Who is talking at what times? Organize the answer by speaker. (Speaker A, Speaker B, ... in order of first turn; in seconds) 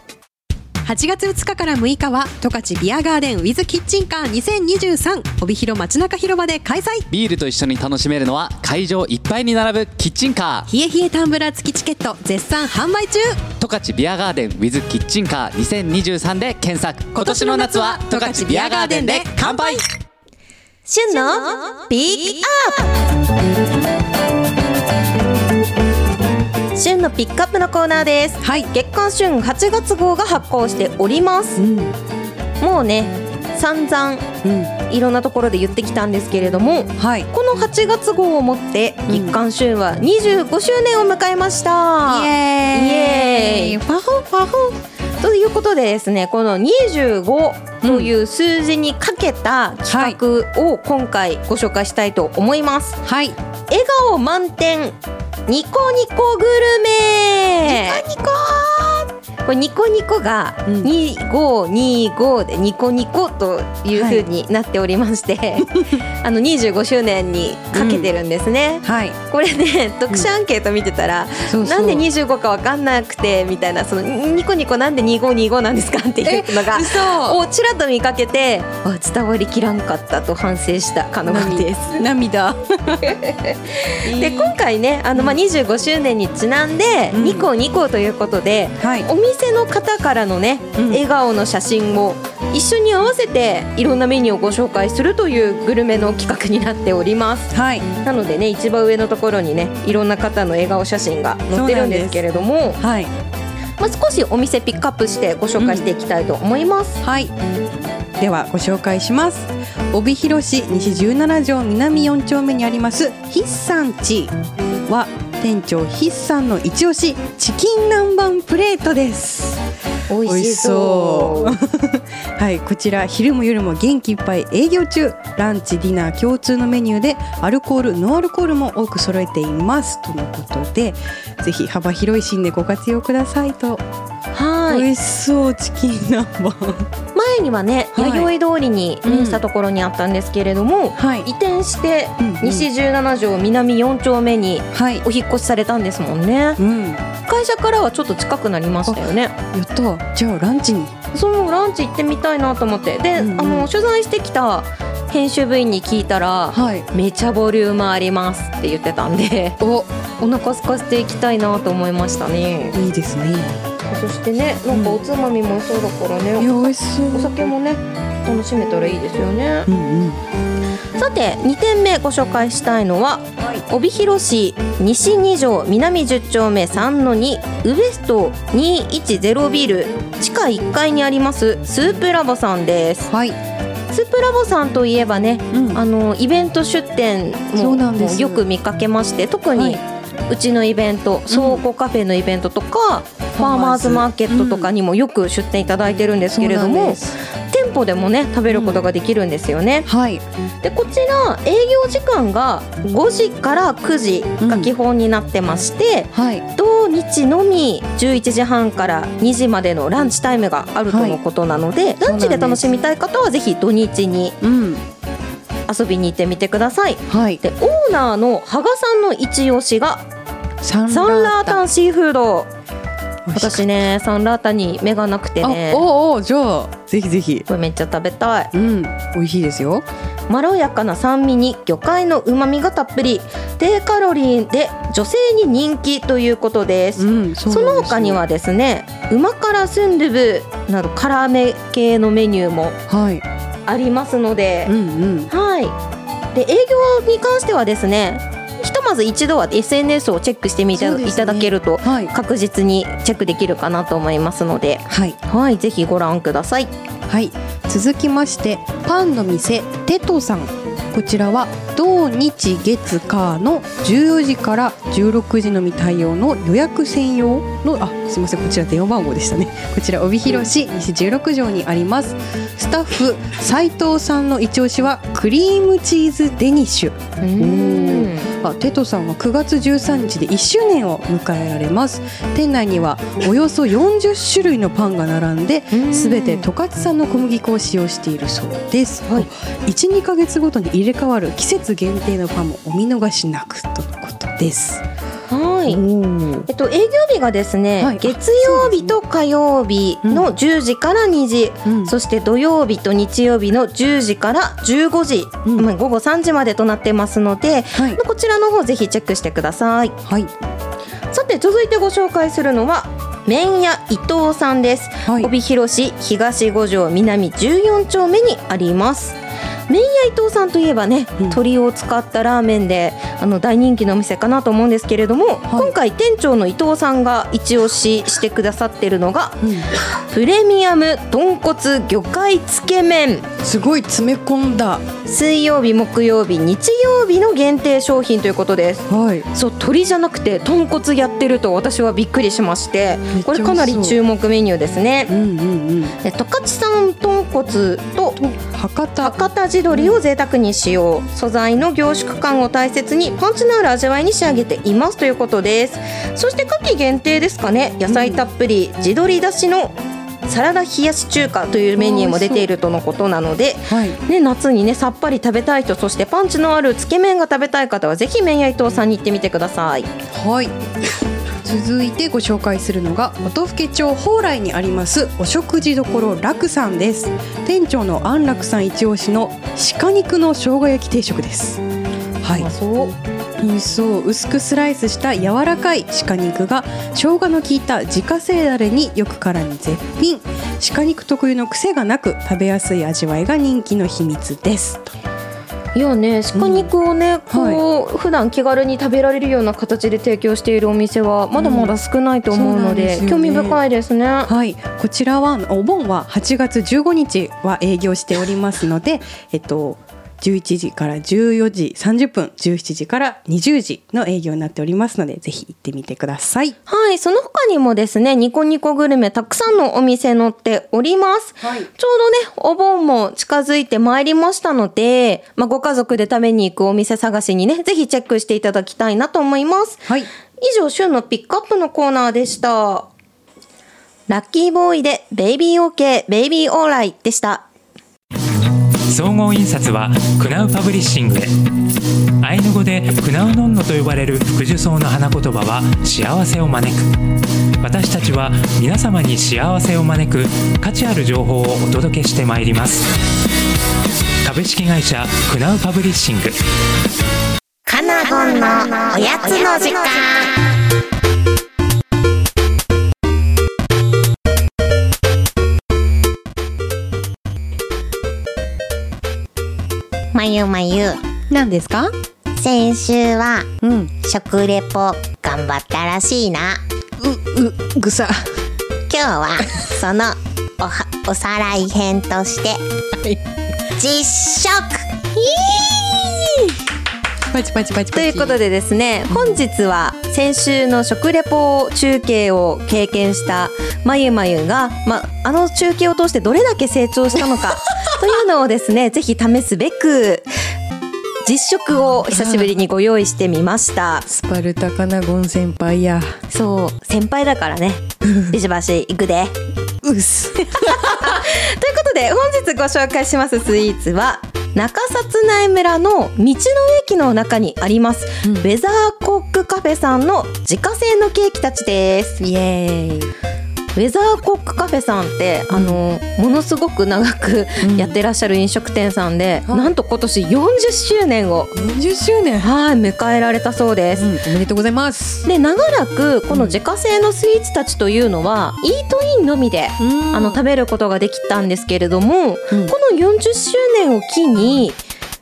Speaker A: 0.8-7.1, 10.7-13.4, 17.2-19.8, 28.4-28.7, 31.6-32.0, 34.4-34.7, 37.0-37.3, 39.1-39.4, 42.1-44.8, 47.8-48.1, 49.9-50.2, 53.0-53.4, 57.6-59.0, 60.7-60.9, 63.9-64.3, 65.8-66.0, 67.7-68.1, 68.8-69.2, 71.5-72.1, 76.2-77.4, 81.2-83.1, 84.0-84.6, 87.1-87.5, 88.8-89.1, 90.8-91.0, 97.5-97.9, 101.5-102.2, 102.8-103.1, 105.6-105.9, 107.0-107.3, 108.2-119.6, 120.2-133.8, 134.7-136.9, 137.9-138.3, 139.0-139.4, 141.0-141.3, 142.2-142.7, 144.7-145.1, 146.6-147.1, 148.9-151.0, 153.2-153.7, 156.5-156.9, 159.6-159.9, 162.7-163.6, 164.7-165.0, 166.4-167.4, 169.7-170.2, 183.1-183.4, 185.5-185.8, 187.6-188.4, 189.6-189.8, 191.3-191.6, 193.3-194.7, 196.3-197.1, 198.5-198.8, 199.9-200.2, 204.4-204.7, 206.1-206.4, 210.9-211.2, 212.0-212.8, 214.4-214.8, 217.1-217.4, 220.6-221.6, 223.3-223.7, 225.4-227.5, 228.5-229.9, 237.0-238.2, 242.9-243.2, 244.7-245.3, 250.7-252.1, 254.9-255.2, 257.1-294.8, 295.7-296.5, 297.8-299.0, 301.6-301.9, 307.8-308.0, 310.1-310.3, 315.1-315.3, 325.5-325.8, 329.4-329.7, 333.4-334.9, 338.9-339.3, 343.1-344.0, 345.1-346.0, 348.2-349.2, 349.7-350.0, 357.9-358.2, 361.8-362.5, 363.7-364.0, 370.1-370.6, 371.4-381.6, 382.2-382.5, 383.4-394.9, 396.4-396.7, 397.3-397.6, 401.4-401.7, 402.3-403.6, 404.3-416.6, 421.4-421.7, 471.3-471.9, 473.6-473.9, 477.0-478.4, 487.3-488.4, 489.1-489.4, 502.1-502.5, 504.1-506.2, 508.0-508.4, 509.8-511.2, 522.2-523.1, 525.5-525.8, 527.6-528.0, 531.5-532.5, 534.0-535.3, 536.3-536.6, 539.8-540.4
Speaker B: 7.1-10.7, 13.6-19.8
Speaker C: 20.9-22.9, 26.8-31.6, 32.6-34.3, 34.9-43.8, 45.2-53.0, 53.7-58.0, 59.4-82.1, 83.0-102.8, 103.8-107.0, 120.1-121.6, 134.3-134.9, 137.1-146.6, 147.3-149.3, 151.1-159.6, 160.2-162.8, 163.9-169.7, 171.0-183.1, 183.9-197.0, 197.5-199.9, 200.6-214.4, 215.7-220.1, 220.9-222.5, 223.3-225.8, 227.5-228.5, 230.3-242.8, 243.7-244.8, 245.3-245.8, 246.3-256.7, 277.2-278.3, 285.7-286.5, 295.3-295.8, 296.5-310.0, 311.1-319.2, 319.7-329.4, 330.1-333.3, 335.1-345.1, 346.0-348.2, 349.0-369.9, 382.4-383.0, 395.7-404.3, 416.7-429.9, 430.4-432.9, 434.1-437.5, 487.9-500.3, 501.2-504.1, 506.3-509.4, 510.6-522.2, 523.8-531.5, 532.4-534.1, 535.2-544.8
Speaker D: 438.9-441.3, 442.2-447.0, 447.6-452.9, 454.2-456.4
Speaker E: 457.7-460.3, 470.1-471.0, 472.4-476.6, 478.9-482.6, 483.8-485.6